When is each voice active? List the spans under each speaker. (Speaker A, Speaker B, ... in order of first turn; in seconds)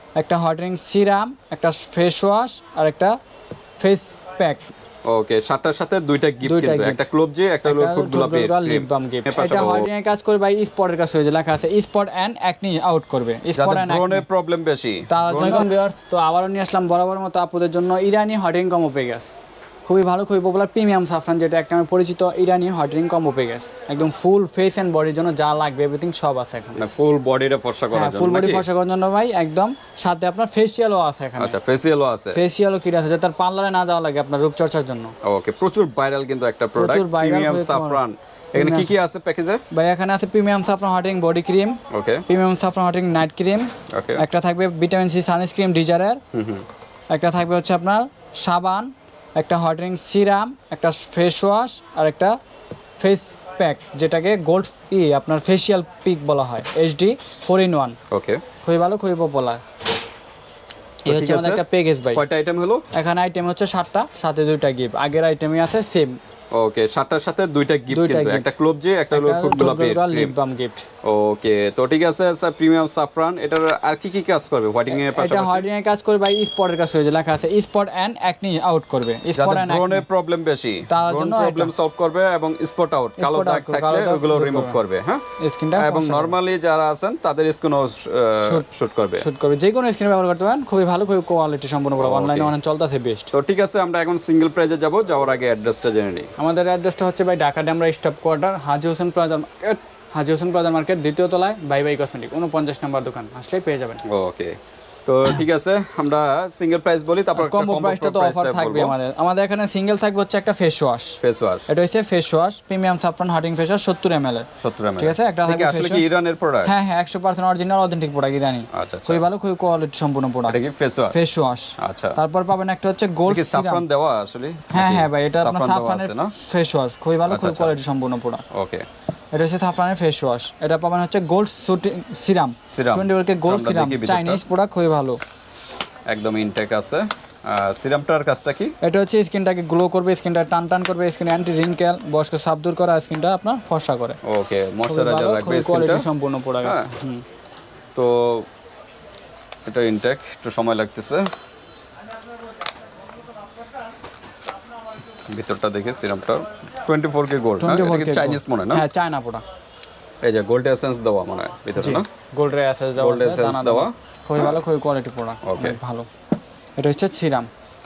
Speaker A: 0.1-3.2, 3.8-4.7, 6.4-7.0, 7.6-14.2, 15.1-19.3, 19.8-26.8, 27.9-31.6, 32.3-35.1, 36.8-38.0, 38.5-38.9, 39.7-46.2, 47.1-52.4, 53.0-58.0, 58.6-59.6, 61.0-62.2, 62.9-66.2, 67.9-68.5, 69.1-70.8, 74.9-80.0, 80.9-81.7, 83.2-84.8, 85.4-86.3, 89.2-93.3, 96.4-104.0, 107.3-114.5, 115.0-116.0, 116.6-120.6, 121.1-123.8, 124.7-128.4, 129.3-135.2, 138.8-144.2, 144.8-147.2, 157.6-159.4, 161.8-166.1, 166.8-167.5
Speaker B: 5.0-9.9, 13.5-15.7, 26.8-28.7, 31.4-32.4, 35.2-39.6, 41.9-42.2, 43.9-44.2, 46.3-46.6, 58.1-58.4, 61.1-62.9, 66.5-70.3, 71.0-75.7, 79.3-85.2, 85.8-89.3, 92.0-92.5, 93.3-96.3, 104.0-108.9, 111.2-111.7, 114.6-116.7, 118.7-119.2, 120.5-121.2, 121.8-122.2, 123.3-126.3, 127.3-127.7, 128.5-128.8, 132.7-134.4, 136.1-138.7, 144.2-146.1, 146.6-146.9, 147.9-148.5, 149.7-151.3, 155.3-158.8, 160.2-162.1, 163.0-164.5, 165.4-165.8